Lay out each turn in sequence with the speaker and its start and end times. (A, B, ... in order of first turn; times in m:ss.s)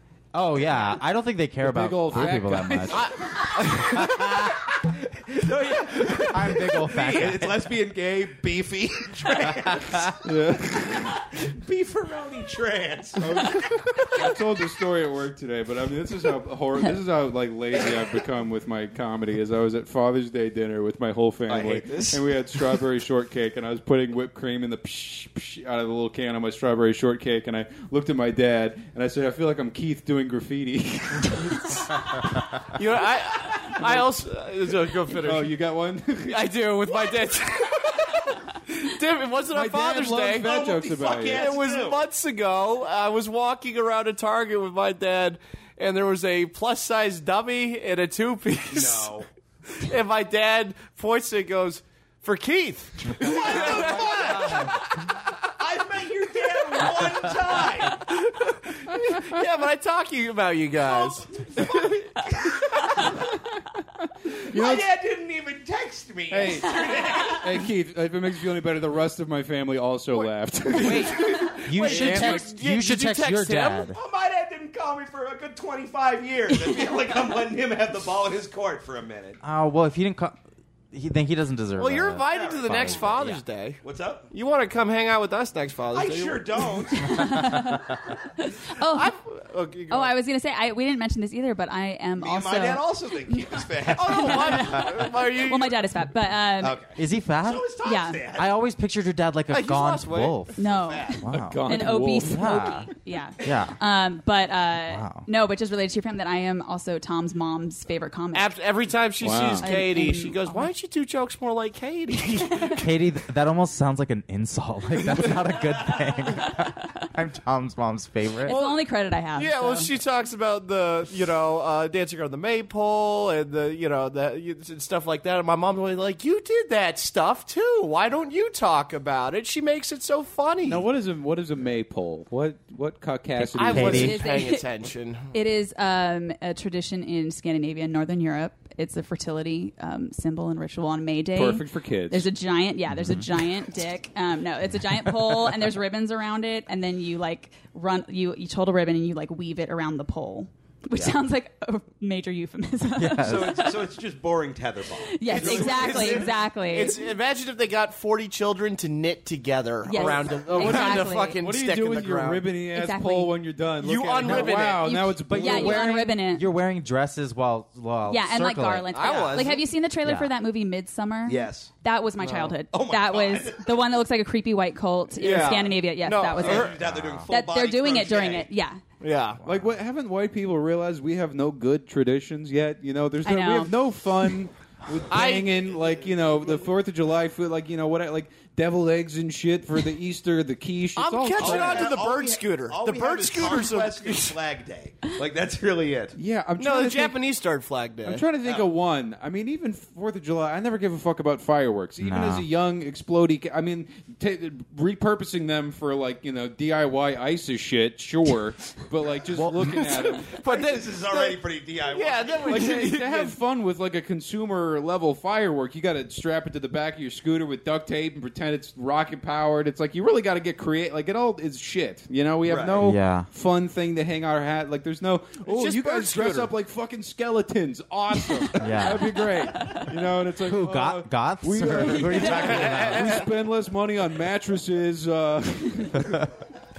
0:00.3-0:04.6 A
0:01.6-0:03.3 B
0:02.9-0:04.4 C
0:04.4-0:10.2 D
0:06.2-0:07.6 A
0:09.7-0:10.1 A
0:10.2-0:11.1 B
0:10.8-0:13.6 D
0:13.2-0:32.0 B
0:21.5-0:22.2 D
0:32.7-0:35.5 C
0:33.6-0:34.1 B
0:35.1-0:37.0 B
0:36.2-0:40.6 C
0:39.5-0:41.5 B
0:40.4-0:42.0 D
0:41.2-0:49.1 C
0:48.7-0:49.3 D
0:49.7-0:54.7 C
0:53.2-0:58.1 D
0:58.0-1:02.0 C
1:01.4-1:03.2 D
1:04.3-1:07.6 D
1:04.4-1:04.8 B
1:06.3-1:12.5 B
1:10.8-1:13.9 C
1:10.9-1:14.0 A
1:13.9-1:19.4 D
1:19.4-1:20.4 A
1:20.9-1:23.4 A
1:21.8-1:26.7 C
1:22.3-1:23.3 D
1:23.8-1:24.3 D
1:25.9-1:27.5 D
1:27.0-1:29.1 E
1:28.9-1:30.1 C
1:29.9-1:36.8 E
1:32.2-1:34.8 D
1:33.9-1:35.8 C
1:36.6-1:38.5 D
1:37.0-1:37.7 A
1:37.8-1:38.2 E
1:38.3-1:40.6 A
1:39.5-1:40.4 C
1:40.6-1:48.5 E
1:40.6-1:41.2 D
1:41.2-1:42.9 A
1:41.3-1:42.6 B
1:43.4-1:43.8 A
1:44.9-1:45.2 A
1:48.3-1:52.9 C
1:49.2-1:49.7 B
1:49.6-1:50.7 E
1:52.5-1:52.8 E
1:52.7-1:58.6 A
1:58.4-1:59.9 E
1:58.4-2:10.8 C
2:10.6-2:14.2 B
2:13.4-2:15.3 C
2:13.7-2:14.2 A
2:13.9-2:14.6 E
2:15.3-2:33.7 E
2:21.3-2:22.3 B
2:22.9-2:23.3 A
2:25.0-2:25.3 A
2:33.0-2:33.6 A
2:33.2-2:36.4 D
2:35.0-2:37.0 E
2:35.3-2:42.4 C
2:39.8-2:41.4 E
2:40.5-2:45.9 B
2:42.7-2:43.3 E
2:43.8-2:45.0 C
2:44.5-2:46.5 E
2:45.2-2:49.5 A
2:48.1-2:56.7 E
2:48.9-2:49.7 C
2:50.0-2:50.3 A
2:51.2-2:51.7 D
2:52.2-2:52.6 C
2:52.7-2:53.8 D
2:55.2-2:56.8 C
2:56.4-2:58.5 D
2:56.7-2:57.3 A
2:57.3-2:58.8 E
2:59.0-2:59.4 C
2:59.4-3:11.9 B
3:03.2-3:03.8 E
3:05.1-3:05.5 C
3:05.7-3:06.7 D
3:11.0-3:14.4 C
3:11.4-3:16.1 D
3:16.2-3:17.2 B
3:16.6-3:18.3 C
3:18.0-3:30.3 B
3:22.0-3:22.4 A
3:29.3-3:30.0 A
3:30.2-3:33.3 C
3:30.4-3:32.7 D
3:32.5-3:56.2 B
3:42.4-3:42.8 D
3:42.8-3:43.3 A
3:45.4-3:46.5 C
3:48.6-3:49.2 A
3:49.5-3:49.8 E
3:50.4-3:53.2 A
3:52.1-3:52.4 E
3:52.4-3:53.2 C